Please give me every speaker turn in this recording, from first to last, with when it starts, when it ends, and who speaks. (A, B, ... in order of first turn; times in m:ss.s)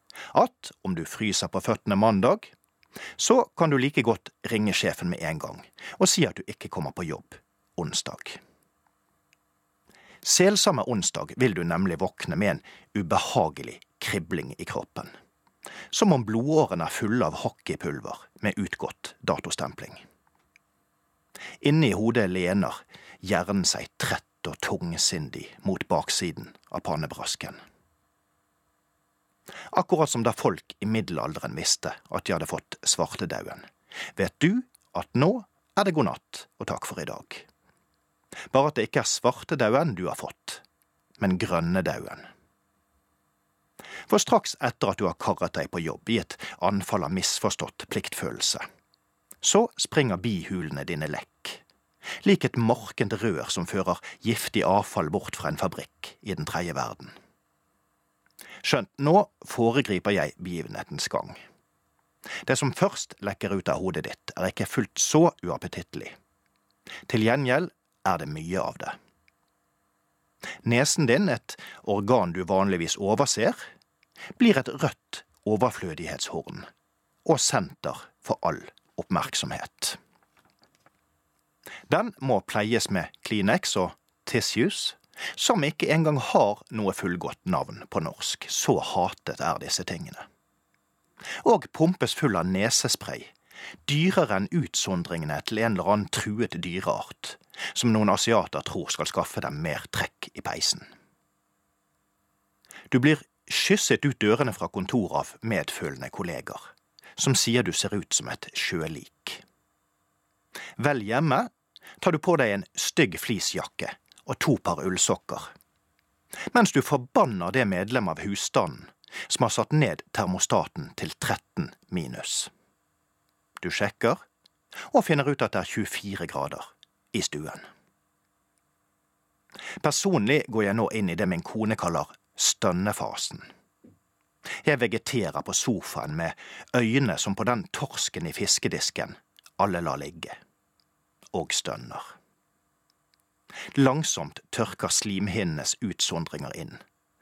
0:00.3-0:02.5 A
0:03.2-0:08.4 A
0:10.2-0:15.1 A
0:15.9-0:20.0 A
0:21.6-0:27.6 A
0:29.7-0:37.4 A
0:38.5-0:40.6 A
0:41.2-0:42.3 A
0:44.1-0:48.6 A
0:49.4-0:51.6 A
0:52.2-0:57.1 A
0:58.6-1:01.4 A
1:02.4-1:06.1 A
1:07.1-1:09.0 A
1:10.6-1:13.6 A
1:14.4-1:16.7 A
1:17.2-1:20.0 A
1:21.9-1:30.2 A
1:31.4-1:33.3 A
1:33.9-1:40.9 A
1:42.9-1:49.4 A
1:50.8-1:55.5 A
1:56.5-2:02.5 A
2:03.6-2:04.2 A
2:04.9-2:07.7 A
2:09.8-2:13.5 A
2:14.6-2:20.4 A
2:21.3-2:22.1 A
2:23.7-2:26.8 A